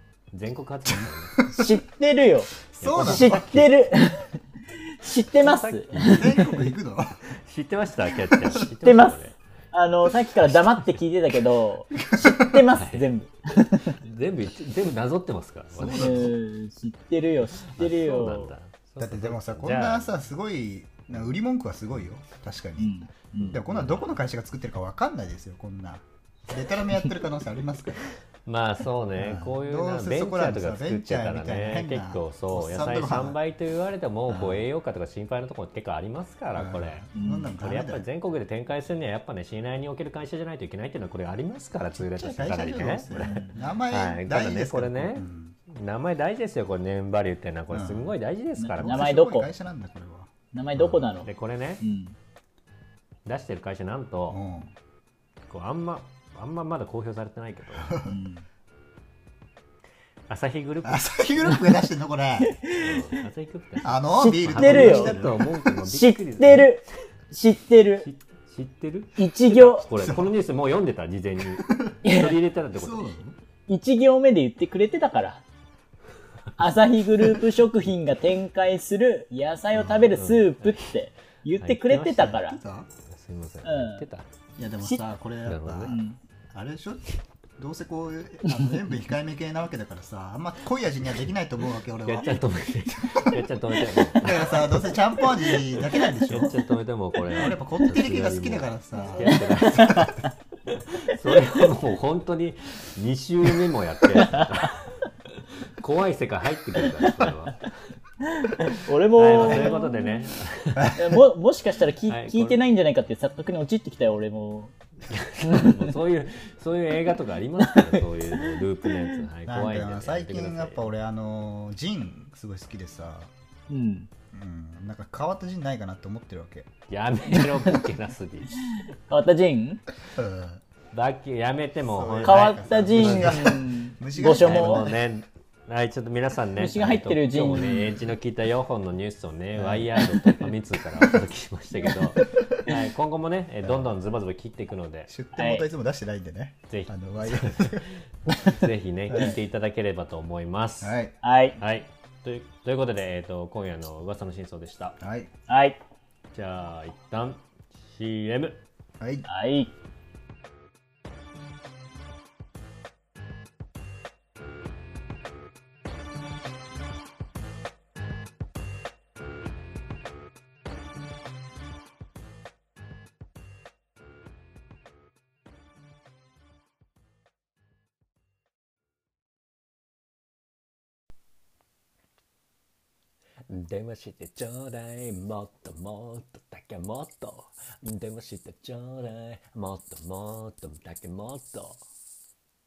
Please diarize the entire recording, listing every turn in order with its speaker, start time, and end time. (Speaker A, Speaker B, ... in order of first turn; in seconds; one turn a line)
Speaker A: 0.3-1.4
Speaker B: 0.9-1.8
Speaker C: 1.5-6.6
Speaker B: 2.8-3.6
Speaker A: 2.8-3.6
Speaker A: 5.3-6.4
Speaker B: 6.0-7.2
Speaker A: 7.3-9.4
Speaker C: 8.6-9.2
Speaker C: 9.7-14.0
Speaker B: 12.0-12.6
Speaker A: 12.7-13.1
Speaker A: 14.0-16.3
Speaker B: 15.7-16.3
Speaker C: 15.9-18.5
Speaker A: 17.6-20.2
Speaker B: 19.0-28.0
Speaker C: 22.8-23.6
Speaker A: 23.4-24.2
Speaker A: 28.4-37.0
Speaker B: 29.1-33.4
Speaker B: 34.3-34.7
Speaker B: 36.5-38.1
Speaker C: 37.1-37.5
Speaker A: 37.6-49.1
Speaker B: 41.9-45.5
Speaker C: 43.2-43.6
Speaker B: 47.7-48.1
Speaker C: 48.6-49.5
Speaker B: 48.8-51.0
Speaker C: 50.5-52.1
Speaker A: 51.2-51.8
Speaker A: 53.2-54.4
Speaker B: 54.3-54.7
Speaker A: 55.5-57.9
Speaker B: 57.7-58.1
Speaker C: 58.1-58.5
Speaker A: 60.3-61.5
Speaker B: 60.8-62.5
Speaker C: 62.4-63.2
Speaker A: 62.7-66.7
Speaker B: 63.8-65.6
Speaker C: 64.1-68.1
Speaker A: 68.0-73.3
Speaker C: 69.2-69.9
Speaker B: 70.0-70.3
Speaker B: 71.6-71.9
Speaker C: 72.0-72.4
Speaker B: 72.8-73.2
Speaker C: 73.7-75.4
Speaker C: 76.6-82.6
Speaker B: 79.7-80.0
Speaker A: 80.1-80.9
Speaker A: 81.5-82.4
Speaker B: 82.3-82.9
Speaker A: 83.0-84.3
Speaker C: 83.6-84.1
Speaker B: 84.6-86.0
Speaker A: 85.4-85.9
Speaker C: 85.9-86.2
Speaker B: 86.5-87.0
Speaker B: 87.6-93.4
Speaker C: 88.5-88.7
Speaker A: 92.0-94.9
Speaker B: 94.1-96.6
Speaker A: 95.5-100.1
Speaker B: 97.3-100.3
Speaker A: 100.8-107.6
Speaker C: 108.3-110.2
Speaker A: 108.7-111.0
Speaker B: 110.8-111.0
Speaker C: 110.9-114.7
Speaker A: 112.1-112.6
Speaker A: 115.0-120.9
Speaker C: 115.4-115.9
Speaker C: 117.6-119.2
Speaker B: 119.5-123.3
Speaker C: 123.7-124.1
Speaker B: 124.3-126.7
Speaker A: 126.9-128.6
Speaker C: 127.5-127.8
Speaker C: 129.1-129.8
Speaker B: 130.1-130.6
Speaker A: 130.9-133.5
Speaker B: 131.9-134.9
Speaker C: 132.2-134.9
Speaker A: 134.3-145.1
Speaker C: 136.6-138.0
Speaker B: 139.5-140.1
Speaker B: 143.6-143.9
Speaker B: 145.1-147.8
Speaker C: 145.3-145.7
Speaker A: 146.7-150.9
Speaker B: 149.1-149.3
Speaker B: 150.8-151.1
Speaker C: 151.2-151.6
Speaker A: 151.6-155.0
Speaker B: 155.0-155.3
Speaker C: 155.5-155.8
Speaker A: 156.3-158.6
Speaker B: 159.0-159.2
Speaker C: 159.2-159.7
Speaker A: 183.5-191.8